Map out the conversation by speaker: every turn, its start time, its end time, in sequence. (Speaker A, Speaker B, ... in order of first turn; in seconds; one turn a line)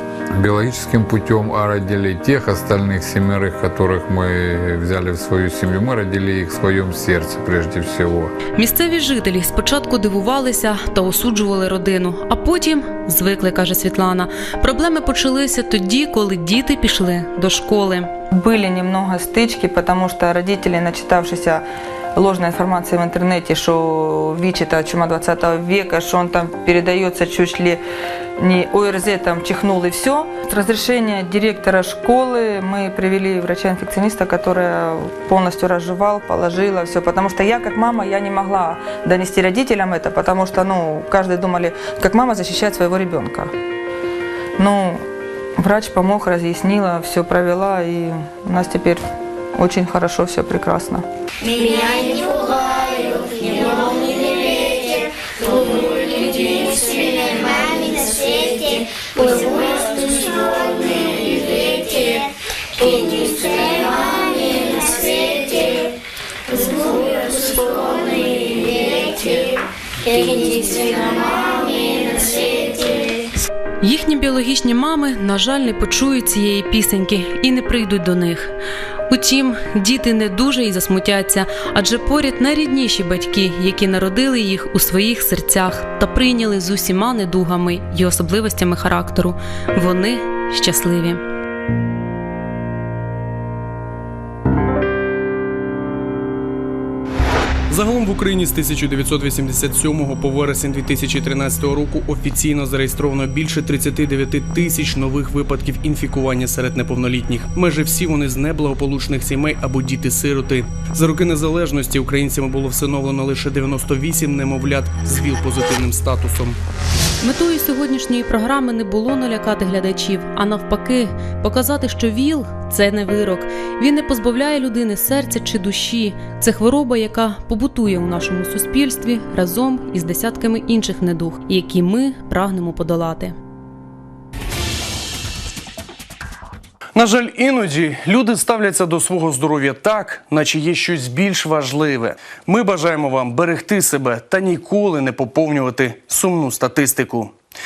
Speaker A: 0.3-8.3
Speaker B: 8.6-18.1
Speaker C: 18.3-21.6
Speaker C: 22.1-27.8
Speaker C: 28.4-43.5
Speaker C: 44.6-45.0
Speaker C: 45.6-49.0
Speaker C: 49.5-51.0
Speaker D: 51.4-65.9
Speaker D: 66.5-73.3
Speaker B: 73.8-78.5
Speaker B: 79.1-91.2
Speaker E: 97.7-116.6
Speaker B: 117.2-133.3
Speaker E: 136.9-147.3